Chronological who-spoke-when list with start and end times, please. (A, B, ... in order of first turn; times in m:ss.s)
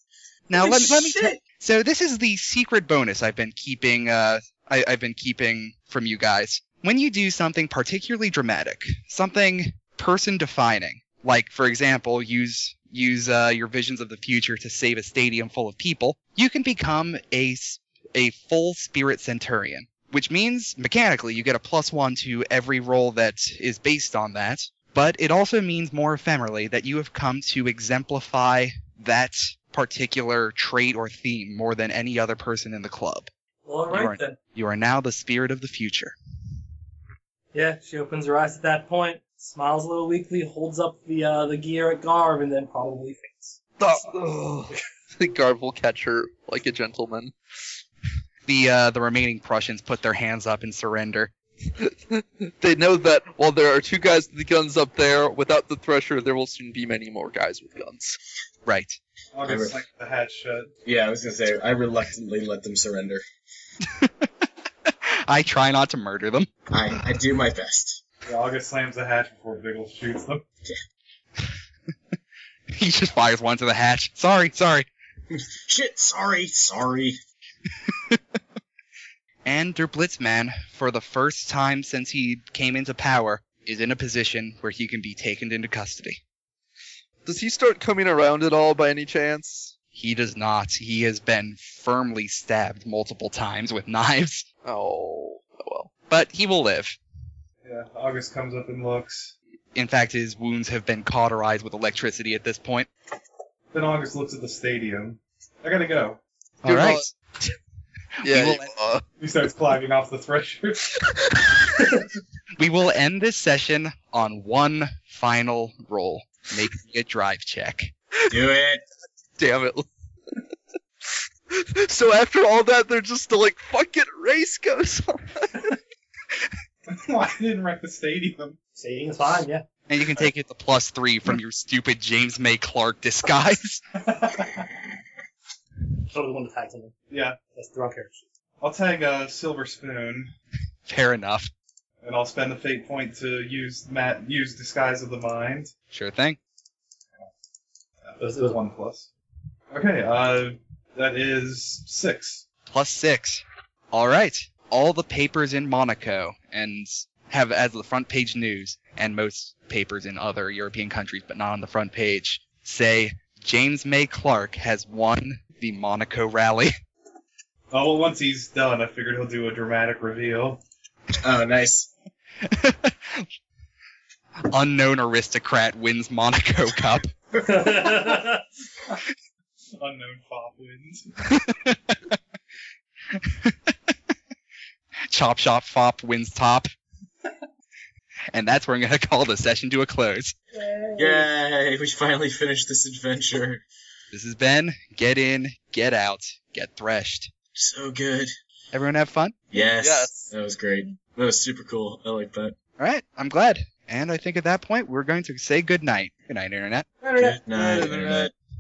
0:00.5-0:33.3 A
0:00.6-0:01.4 B
0:33.6-0:34.4 C
0:33.9-0:36.2 A
0:37.5-0:44.1 C
0:43.8-0:47.3 D
0:48.5-0:51.3 A
0:51.8-0:58.2 D
0:58.7-0:59.0 A
0:59.3-1:00.7 E
0:59.4-0:59.8 B
1:00.8-1:03.2 B
1:03.8-1:04.3 A
1:04.9-1:06.5 A
1:06.7-1:08.0 B
1:08.2-1:10.4 E
1:12.7-1:14.9 A
1:15.3-1:17.2 B
1:17.9-1:18.2 A
1:19.4-1:26.2 A
1:27.2-1:29.7 D
1:29.9-1:34.5 A
1:34.6-1:35.9 D
1:36.1-1:37.0 A
1:37.6-1:39.3 E
1:39.8-1:42.9 A
1:43.7-1:46.2 E
1:46.6-1:47.1 A
1:46.7-1:47.6 D
1:48.2-1:48.7 A
1:48.2-1:49.0 D
1:49.2-1:50.9 E
1:52.6-1:57.9 A
1:58.3-1:58.8 B
1:59.4-1:59.9 D
2:01.5-2:05.7 D
2:06.9-2:08.6 E
2:08.8-2:09.6 C
2:09.9-2:13.8 A
2:14.0-2:14.6 E
2:16.1-2:17.0 C
2:17.1-2:17.4 E
2:17.5-2:18.3 C
2:18.6-2:20.3 E
2:20.9-2:21.5 A
2:22.0-2:25.7 E
2:25.9-2:26.4 A
2:28.1-2:29.1 E
2:28.2-2:28.7 C
2:29.7-2:32.5 E
2:32.7-2:46.7 A
2:47.7-2:50.6 E
2:51.2-2:51.9 B
2:52.4-2:53.3 A
2:54.5-2:57.1 A
2:57.4-2:58.4 C
2:59.8-3:01.0 E
3:01.4-3:02.2 A
3:03.1-3:03.9 A
3:05.1-3:06.7 A
3:08.3-3:10.4 A
3:10.6-3:11.3 C
3:11.0-3:13.6 B
3:14.1-3:17.3 A
3:17.6-3:18.3 B
3:18.7-3:19.4 A
3:19.5-3:22.6 B
3:19.6-3:20.3 D
3:22.8-3:26.9 A
3:27.0-3:27.4 C
3:27.2-3:28.3 B
3:27.5-3:28.3 D